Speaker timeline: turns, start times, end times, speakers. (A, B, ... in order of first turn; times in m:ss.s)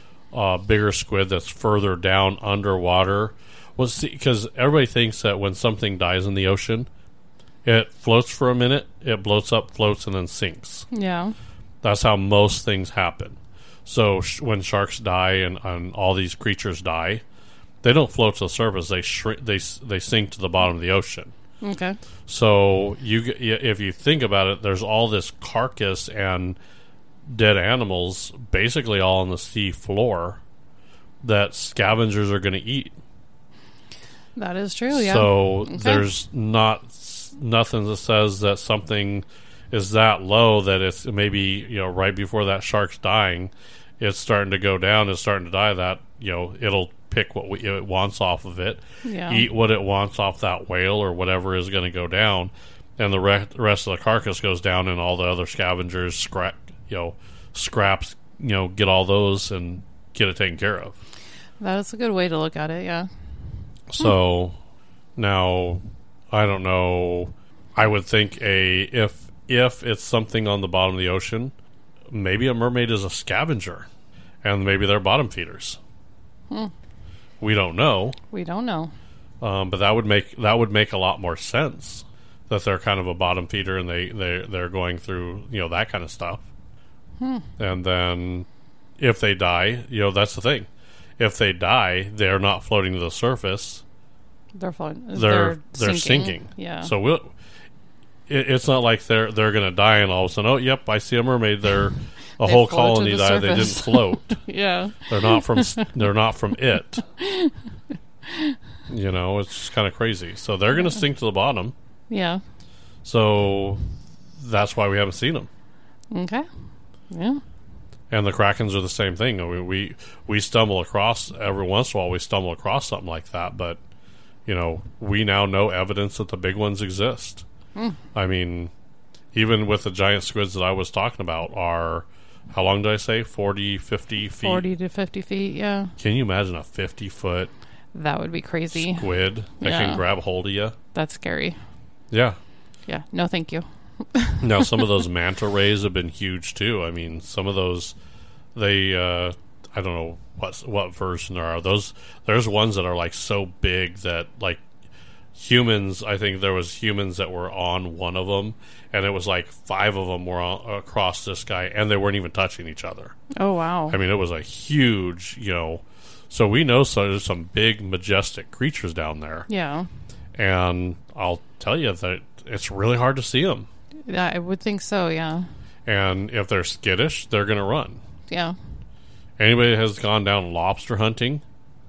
0:00.3-0:06.9 A
0:07.6-0:10.8 A
0:10.9-0:11.3 B
0:11.8-0:17.2 A
0:17.8-0:21.3 A
0:21.6-0:22.0 B
0:22.3-0:26.6 A
0:27.3-0:30.4 A
0:31.2-0:33.0 A
0:34.4-0:36.0 B
0:34.9-1:01.0 A
0:49.0-0:49.5 B
1:01.6-1:03.1 B
1:03.9-1:04.6 A
1:05.2-1:11.5 A
1:12.1-1:13.9 A
1:14.4-1:15.8 A
1:17.4-1:18.2 A
1:18.3-1:18.9 B
1:19.4-1:26.4 A
1:27.2-1:27.5 B
1:27.6-1:28.5 A
1:29.0-1:33.8 A
1:34.6-1:36.9 B
1:35.1-1:37.3 A
1:38.3-1:44.4 A
1:42.4-1:45.8 B
1:45.1-1:47.0 A
1:47.2-1:47.6 B
1:48.3-1:48.6 B
1:48.9-1:51.7 A
1:52.1-1:52.4 B
1:53.0-1:53.8 A
1:54.4-1:55.5 A
1:56.1-1:56.5 B
1:57.1-1:57.4 B
1:58.1-2:03.8 A
2:04.4-2:07.4 A
2:08.1-2:08.7 A
2:09.3-2:14.6 A
2:14.4-2:15.9 B
2:16.0-2:17.5 A
2:17.9-2:20.0 B
2:18.7-2:20.8 A
2:20.9-2:21.6 B
2:22.1-2:22.4 A
2:22.9-2:24.8 B
2:24.4-2:27.9 A
2:28.5-2:34.6 A
2:35.3-2:43.1 A
2:43.4-2:44.0 B
2:43.9-2:49.5 A
2:49.5-2:49.9 B
2:50.4-2:53.7 A
2:54.1-2:55.5 B
2:55.8-2:58.0 A
2:58.3-2:58.5 B
2:59.4-3:01.4 A